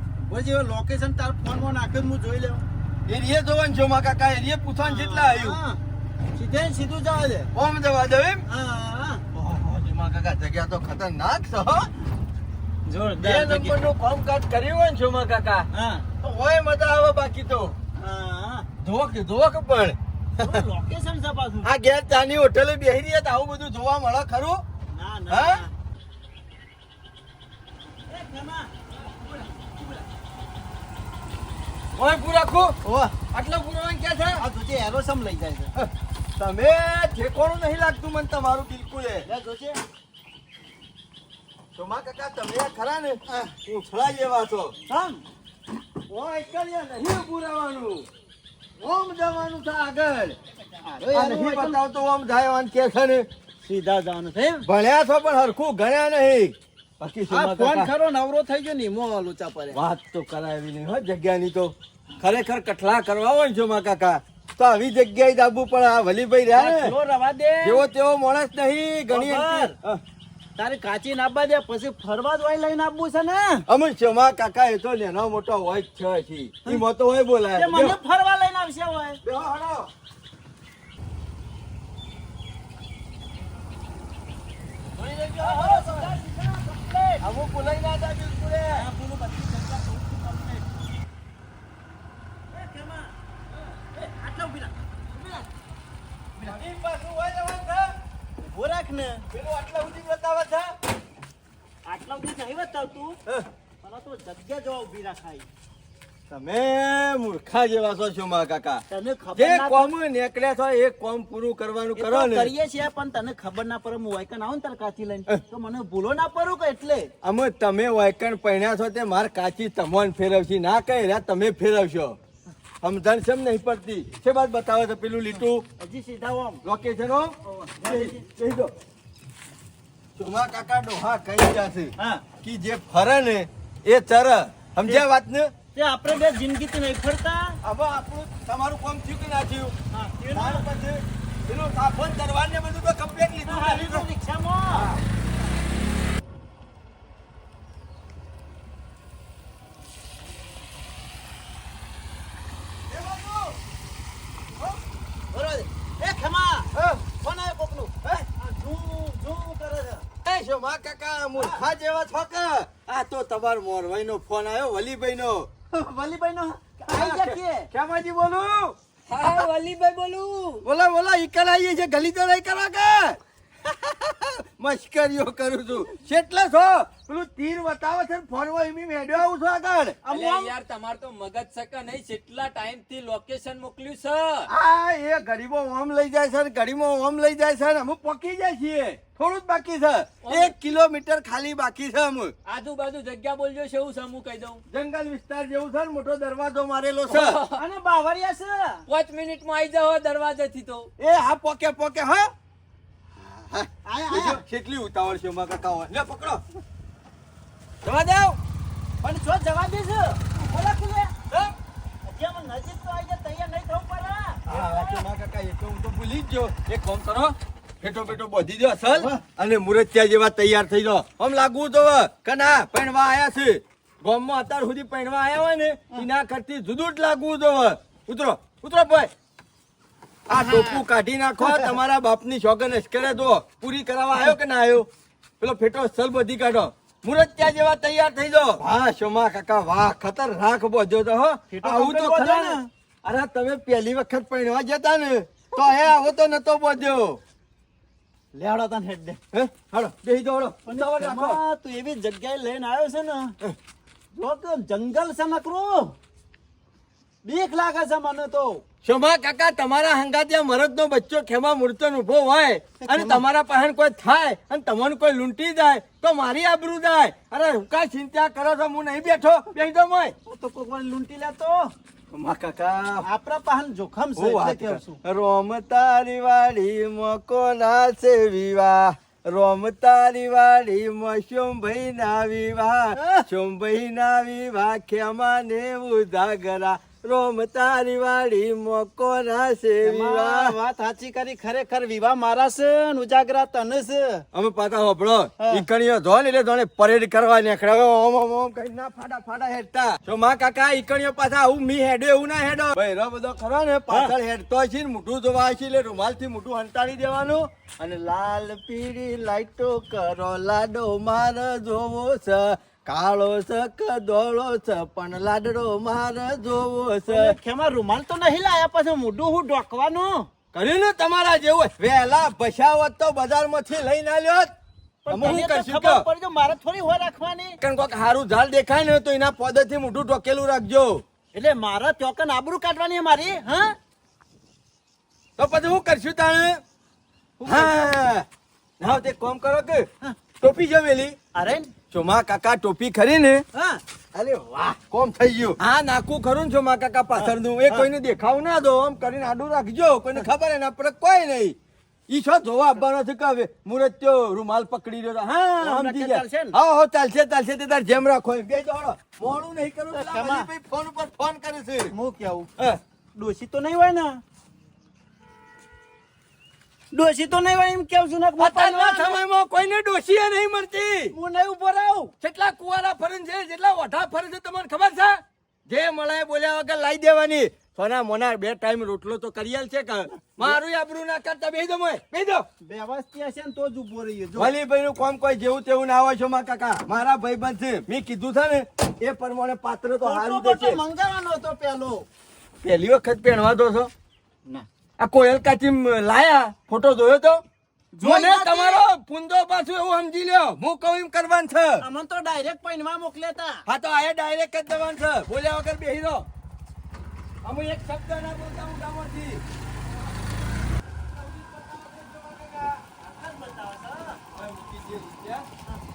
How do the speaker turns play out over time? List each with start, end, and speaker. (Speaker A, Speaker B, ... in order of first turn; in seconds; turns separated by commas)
Speaker A: 0.2-2.6, Speaker B: 3.1-5.6, Speaker A: 4.8-5.8, Speaker A: 6.3-7.5, Speaker B: 7.5-8.4, Speaker A: 8.5-9.2, Speaker B: 9.3-11.9, Speaker A: 12.9-13.8, Speaker B: 13.2-15.7, Speaker A: 15.7-16.1, Speaker B: 16.2-17.7, Speaker A: 18.0-18.7, Speaker B: 18.8-20.6, Speaker A: 20.4-21.7, Speaker B: 21.6-24.6, Speaker A: 24.9-25.7, Speaker B: 25.3-25.6, Speaker A: 28.1-28.7, Speaker B: 31.9-34.4, Speaker A: 32.8-33.1, Speaker A: 34.4-35.7, Speaker B: 35.8-39.2, Speaker A: 39.2-39.8, Speaker B: 41.7-44.7, Speaker A: 44.9-45.2, Speaker B: 46.1-48.1, Speaker B: 48.8-50.4, Speaker A: 50.8-51.8, Speaker B: 51.1-53.2, Speaker A: 53.6-54.7, Speaker B: 54.6-57.9, Speaker A: 57.3-59.8, Speaker B: 59.7-66.9, Speaker A: 66.5-67.8, Speaker B: 67.6-70.0, Speaker A: 69.1-69.7, Speaker A: 70.6-73.7, Speaker B: 73.7-78.0, Speaker A: 77.5-79.2, Speaker B: 79.2-79.9, Speaker B: 85.0-86.1, Speaker A: 85.3-87.2, Speaker B: 87.2-88.8, Speaker A: 88.7-90.7, Speaker A: 92.5-93.1, Speaker A: 93.9-95.5, Speaker A: 96.3-96.6, Speaker B: 96.4-97.9, Speaker A: 98.4-99.2, Speaker B: 99.3-100.7, Speaker A: 101.8-103.2, Speaker A: 103.8-105.5, Speaker B: 106.3-108.8, Speaker A: 108.9-109.9, Speaker B: 109.3-112.5, Speaker A: 111.9-117.1, Speaker B: 117.2-122.2, Speaker B: 122.8-125.6, Speaker A: 125.8-126.6, Speaker B: 126.6-128.7, Speaker A: 127.4-128.2, Speaker B: 130.2-135.5, Speaker A: 132.0-132.2, Speaker A: 135.7-137.6, Speaker B: 137.6-139.7, Speaker A: 139.9-140.7, Speaker B: 140.3-144.1, Speaker A: 143.4-144.9, Speaker B: 144.7-145.0, Speaker B: 152.9-153.5, Speaker A: 155.3-160.1, Speaker B: 156.7-157.0, Speaker B: 160.2-165.5, Speaker A: 161.3-161.6, Speaker A: 165.7-167.7, Speaker B: 166.9-168.8, Speaker C: 169.1-170.6, Speaker B: 170.6-180.0, Speaker A: 180.0-180.5, Speaker C: 180.1-184.5, Speaker B: 184.5-192.3, Speaker C: 190.2-190.5, Speaker C: 192.5-194.6, Speaker B: 194.7-197.4, Speaker C: 197.1-197.6, Speaker A: 197.5-198.8, Speaker C: 198.9-200.9, Speaker B: 201.0-202.3, Speaker B: 203.2-206.4, Speaker A: 203.8-204.4, Speaker B: 207.8-208.4, Speaker A: 209.0-211.1, Speaker A: 212.0-215.0, Speaker B: 214.5-229.1, Speaker A: 218.9-219.2, Speaker B: 230.3-234.9, Speaker A: 230.4-230.8, Speaker B: 235.4-247.2, Speaker A: 241.5-242.7, Speaker A: 248.3-249.2, Speaker B: 249.3-251.4, Speaker A: 250.7-253.3, Speaker A: 254.1-256.0, Speaker A: 257.2-258.6, Speaker B: 258.8-270.1, Speaker A: 262.8-263.2, Speaker A: 270.2-271.7, Speaker B: 272.1-273.0, Speaker A: 273.0-275.0, Speaker B: 274.2-290.6, Speaker A: 282.9-283.2, Speaker A: 289.8-294.2, Speaker B: 294.3-317.4, Speaker A: 295.4-295.6, Speaker A: 303.9-304.1, Speaker A: 317.1-320.3, Speaker B: 320.5-324.5, Speaker A: 325.0-327.6, Speaker B: 325.1-326.1, Speaker B: 327.6-331.0, Speaker A: 331.3-333.8, Speaker B: 335.4-336.6, Speaker A: 337.4-337.7, Speaker B: 337.4-338.2, Speaker B: 338.8-339.9, Speaker B: 340.4-341.1, Speaker A: 341.3-341.7, Speaker B: 341.9-343.4, Speaker A: 343.5-343.8, Speaker B: 344.1-351.6, Speaker A: 347.1-347.9, Speaker B: 352.1-361.9, Speaker A: 355.6-356.6, Speaker A: 359.9-360.5, Speaker A: 361.9-362.5, Speaker A: 363.1-364.2, Speaker A: 366.9-369.2, Speaker B: 368.4-371.1, Speaker A: 371.1-372.1, Speaker B: 372.2-382.4, Speaker A: 382.6-384.5, Speaker B: 384.4-390.8, Speaker A: 390.0-392.1, Speaker B: 392.6-393.9, Speaker B: 395.0-397.4, Speaker A: 397.9-398.8, Speaker B: 398.0-401.8, Speaker A: 401.8-403.6, Speaker B: 403.7-406.2, Speaker B: 407.4-409.4, Speaker B: 411.1-412.8, Speaker A: 413.0-414.2, Speaker B: 414.3-415.5